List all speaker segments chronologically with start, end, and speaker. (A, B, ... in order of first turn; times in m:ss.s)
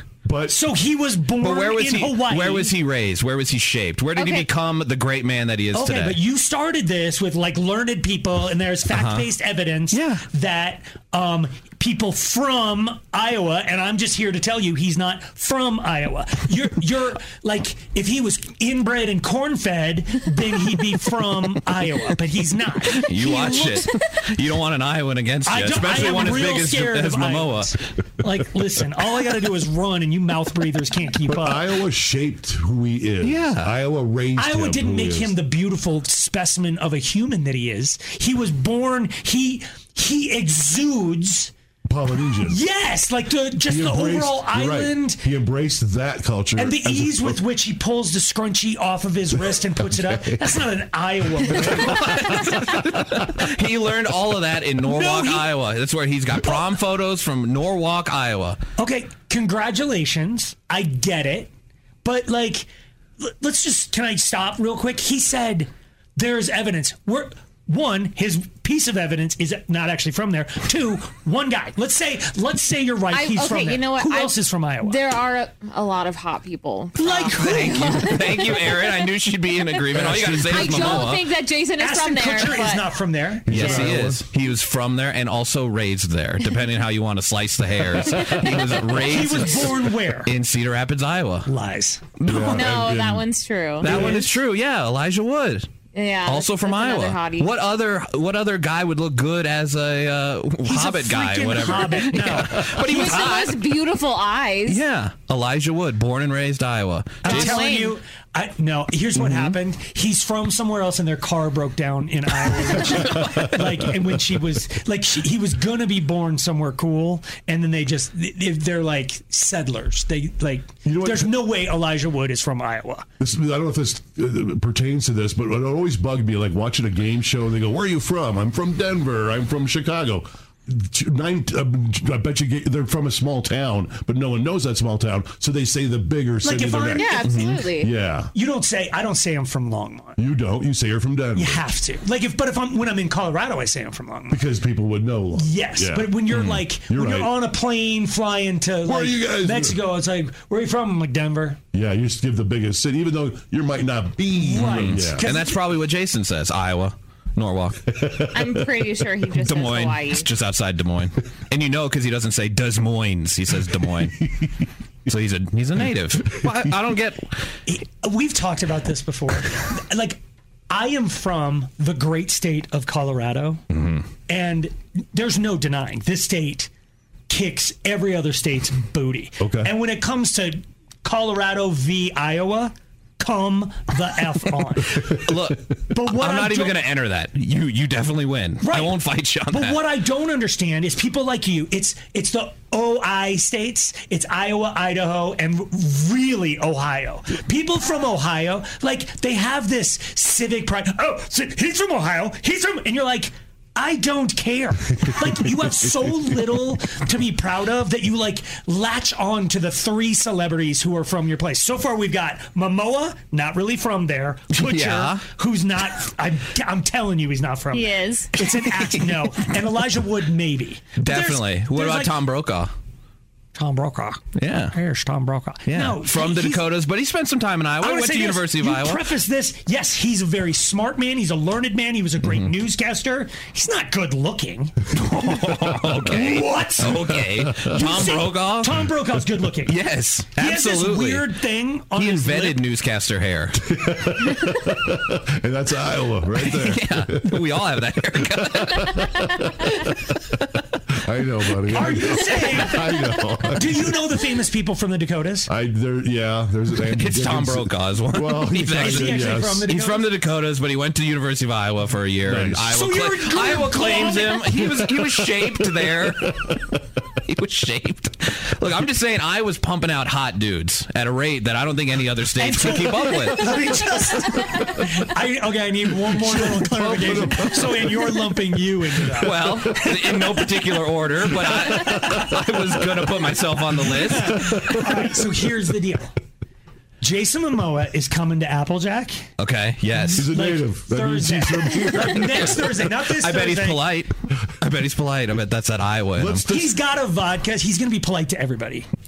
0:00.2-0:00.6 A
0:00.5-0:02.7 B
0:01.4-0:06.2 C
0:04.2-0:04.5 D
0:05.7-0:23.9 B
0:08.9-0:09.2 C
0:09.9-0:10.2 C
0:22.9-0:27.7 C
0:25.5-0:31.6 B
0:31.3-0:35.4 A
0:33.2-0:33.7 C
0:34.4-0:41.5 B
0:41.8-0:42.6 A
0:42.4-0:45.2 B
0:43.6-0:47.4 A
0:46.6-0:52.4 B
0:49.3-0:50.5 A
0:51.6-0:58.6 C
0:54.8-0:55.5 B
0:58.8-1:01.5 B
1:02.0-1:02.7 B
1:03.2-1:15.0 B
1:13.1-1:19.1 D
1:17.0-1:18.2 B
1:17.3-1:21.2 C
1:20.0-1:21.1 B
1:20.3-1:22.9 D
1:21.8-1:23.9 B
1:23.5-1:24.2 A
1:23.5-1:31.5 C
1:29.0-1:30.3 B
1:31.4-1:32.0 B
1:32.2-1:32.6 C
1:32.2-1:33.3 A
1:32.3-1:34.2 D
1:33.8-1:35.7 C
1:33.8-1:34.2 A
1:35.9-1:37.6 D
1:36.2-1:43.6 C
1:40.6-1:43.5 B
1:42.8-1:44.8 D
1:44.7-1:47.6 C
1:47.2-2:03.1 B
1:47.2-1:48.0 D
1:52.9-1:53.4 A
1:53.0-1:53.5 C
2:00.8-2:01.3 A
2:03.2-2:18.3 A
2:16.4-2:17.2 B
2:16.9-2:17.9 D
2:17.2-2:17.6 C
2:18.3-2:20.2 B
2:20.2-2:21.7 A
2:21.3-2:24.4 B
2:24.3-2:26.2 A
2:25.4-2:31.6 B
2:26.3-2:26.6 C
2:26.9-2:27.4 A
2:28.8-2:29.8 A
2:31.7-2:35.2 A
2:34.4-2:35.6 B
2:34.6-2:37.9 C
2:37.9-2:38.5 A
2:38.3-2:40.3 D
2:39.4-2:44.2 C
2:45.1-2:47.3 C
2:47.7-2:53.6 B
2:53.7-2:54.0 C
2:54.3-2:56.7 B
2:57.3-3:05.1 B
2:59.4-2:59.7 A
3:05.0-3:05.3 A
3:05.1-3:09.8 C
3:05.9-3:06.8 B
3:08.6-3:42.1 B
3:34.5-3:35.2 C
3:37.7-3:38.3 D
3:38.8-3:39.1 C
3:41.0-3:42.7 C
3:43.5-3:46.6 B
3:44.4-3:44.7 C
3:45.7-3:49.1 C
3:47.8-3:54.7 B
3:54.9-3:58.8 C
3:56.0-3:57.0 B
3:57.2-3:57.7 A
3:57.6-3:59.8 B
3:59.6-4:01.3 C
4:00.4-4:02.6 B
4:02.0-4:03.6 C
4:03.6-4:07.4 A
4:06.4-4:09.0 C
4:08.2-4:10.1 A
4:10.9-4:14.0 A
4:11.7-4:12.8 B
4:13.5-4:15.5 B
4:15.5-4:19.7 A
4:16.9-4:26.5 C
4:18.8-4:20.1 B
4:22.2-4:22.7 A
4:22.7-4:24.7 B
4:25.0-4:26.8 A
4:27.2-4:33.5 C
4:32.4-4:39.8 B
4:36.1-4:38.4 A
4:39.0-4:39.9 A
4:39.2-4:44.6 C
4:41.4-4:42.4 A
4:43.9-4:46.1 B
4:44.2-4:45.0 A
4:47.0-4:49.2 B
4:49.4-4:50.3 C
4:50.0-4:53.8 B
4:50.1-4:52.7 A
4:53.1-4:56.4 C
4:56.2-4:56.8 A
4:56.5-4:58.9 B